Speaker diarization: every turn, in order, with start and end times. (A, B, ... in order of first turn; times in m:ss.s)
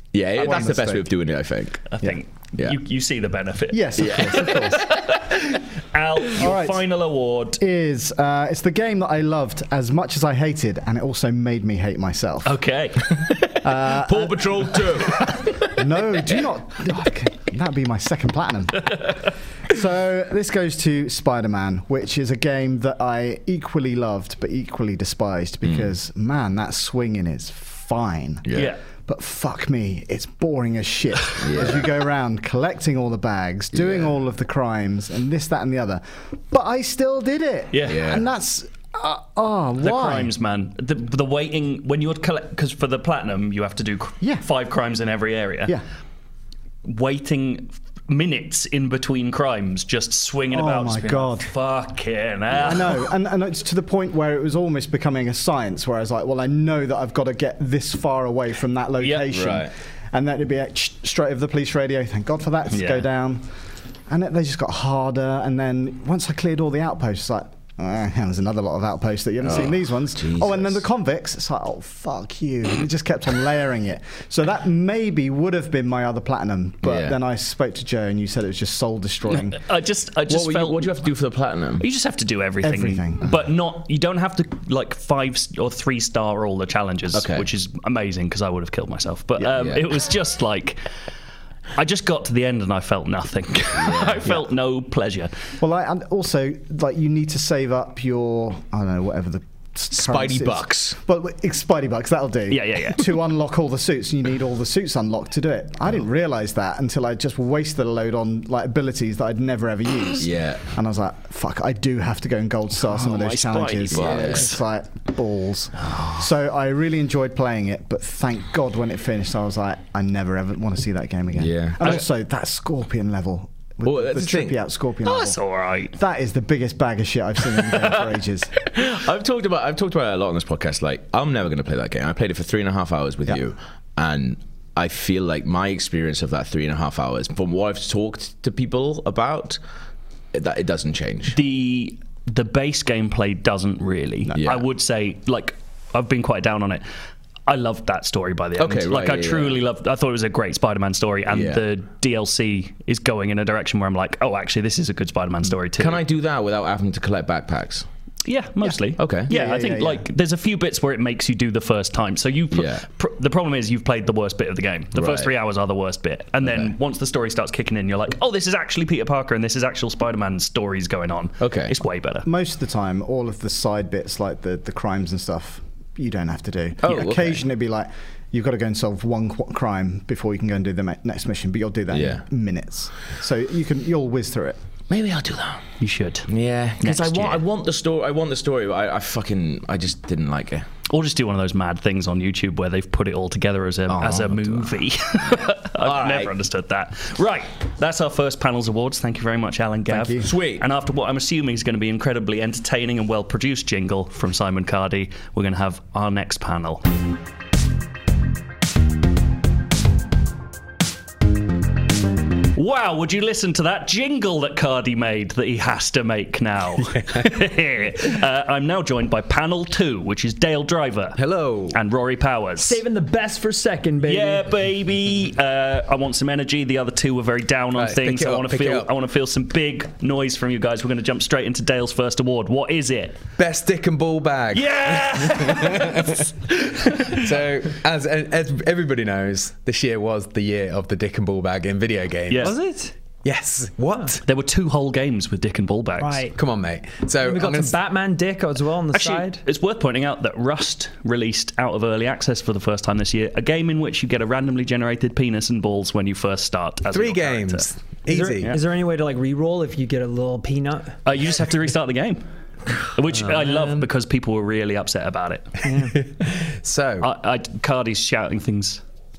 0:00.1-0:01.9 A
0:00.3-0:01.0 B
0:01.9-0:05.4 C
0:03.7-0:04.8 B
0:04.0-0:05.2 A
0:05.9-0:07.6 C
0:06.3-0:06.8 B
0:07.6-0:12.6 B
0:12.4-0:13.6 C
0:13.6-0:40.3 B
0:13.9-0:15.4 A
0:25.6-0:25.9 A
0:28.4-0:28.7 A
0:31.4-0:31.9 A
0:33.7-0:34.1 A
0:37.7-0:38.0 C
0:37.9-0:38.2 A
0:39.8-0:45.7 C
0:46.8-0:53.0 C
0:50.5-0:51.5 B
0:52.5-0:52.9 A
0:52.6-1:03.5 B
0:59.0-0:59.3 C
0:59.3-0:59.7 A
1:02.7-1:03.0 C
1:04.1-1:19.6 B
1:09.4-1:10.8 A
1:16.8-1:17.1 A
1:19.3-1:20.9 C
1:20.3-1:21.8 A
1:21.8-1:30.8 C
1:22.6-1:23.3 B
1:27.1-1:27.5 A
1:29.5-1:29.8 A
1:31.8-1:35.3 C
1:33.8-1:34.2 A
1:35.6-2:05.4 B
1:39.9-1:41.0 A
1:42.5-1:43.1 C
1:50.2-1:50.6 A
1:52.9-1:54.6 C
1:53.9-1:54.5 A
2:01.4-2:02.0 A
2:03.8-2:04.6 A
2:05.0-2:05.9 C
2:05.9-2:08.6 B
2:08.7-2:19.6 A
2:20.3-2:21.4 A
2:21.3-2:26.8 C
2:24.4-2:24.6 A
2:27.5-2:36.0 C
2:28.6-2:29.6 A
2:31.3-2:31.6 A
2:35.8-2:37.9 A
2:38.2-2:52.3 C
2:39.0-2:39.3 A
2:39.3-2:40.0 B
2:42.5-2:42.8 A
2:44.9-2:45.3 A
2:51.4-2:51.7 A
2:52.2-3:04.6 B
2:56.8-2:57.4 A
3:01.9-3:02.2 A
3:04.9-3:05.6 A
3:05.8-3:06.3 C
3:06.3-3:10.7 A
3:06.8-3:07.4 C
3:10.9-3:26.8 C
3:13.9-3:14.6 A
3:15.8-3:16.3 A
3:19.9-3:20.2 B
3:20.2-3:20.6 A
3:32.5-3:41.2 C
3:41.2-3:41.8 D
3:41.7-3:42.8 C
3:42.6-3:44.5 E
3:44.0-3:53.2 C
3:47.7-3:48.9 D
3:53.4-4:02.6 D
3:54.5-3:57.3 C
4:02.3-4:02.5 C
4:02.4-4:02.9 E
4:03.2-4:04.2 D
4:04.2-4:06.2 C
4:06.0-4:06.4 E
4:06.3-4:07.8 D
4:07.2-4:09.4 E
4:08.9-4:17.7 C
4:16.9-4:18.5 D
4:18.1-4:21.0 E
4:21.0-4:22.2 C
4:22.9-4:25.6 C
4:23.1-4:23.9 D
4:25.6-4:26.0 E
4:25.9-4:27.1 D
4:27.0-4:28.8 C